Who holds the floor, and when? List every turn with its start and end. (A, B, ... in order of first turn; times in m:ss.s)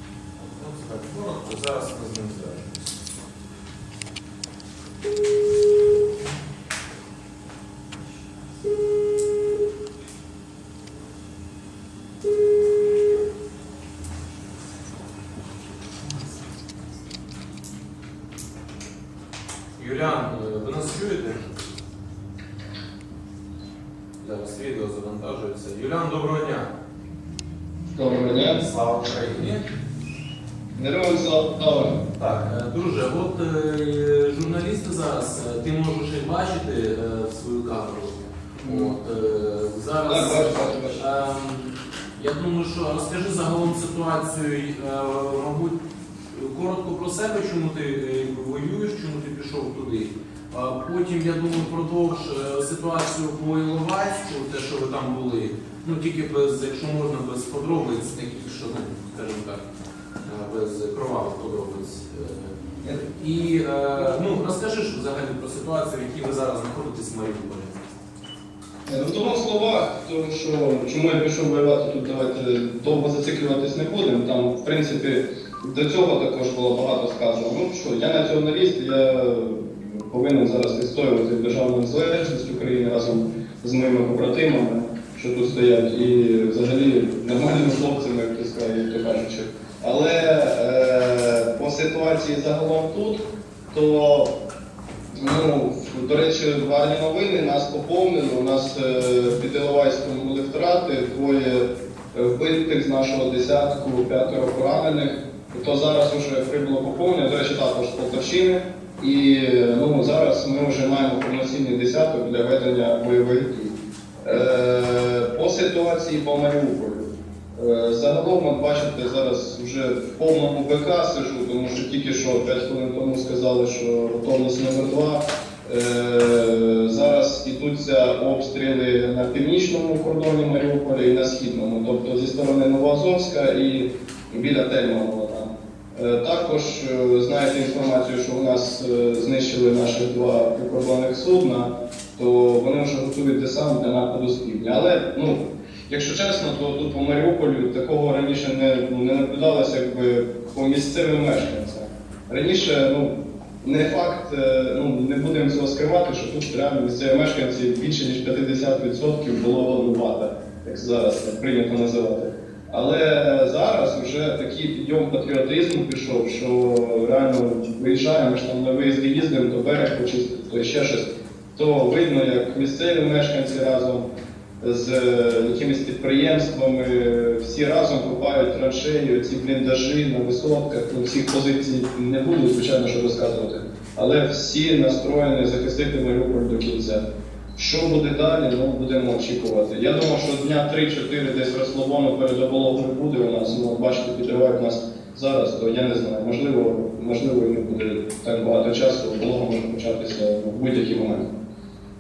0:00.4-0:02.8 A
0:19.8-0:21.5 A
0:24.2-0:26.7 A
0:27.9-0:28.6 B
0:28.4-0:29.6 A
0:30.8-0:31.9 B
0:32.1-0:45.8 A
0:38.6-0:39.0 B
0:40.0-0:41.0 B
0:46.3-0:59.6 A
1:00.2-1:07.8 A
1:08.8-1:34.3 B
1:35.2-2:54.1 B
2:54.6-3:07.0 B
3:07.6-3:21.3 B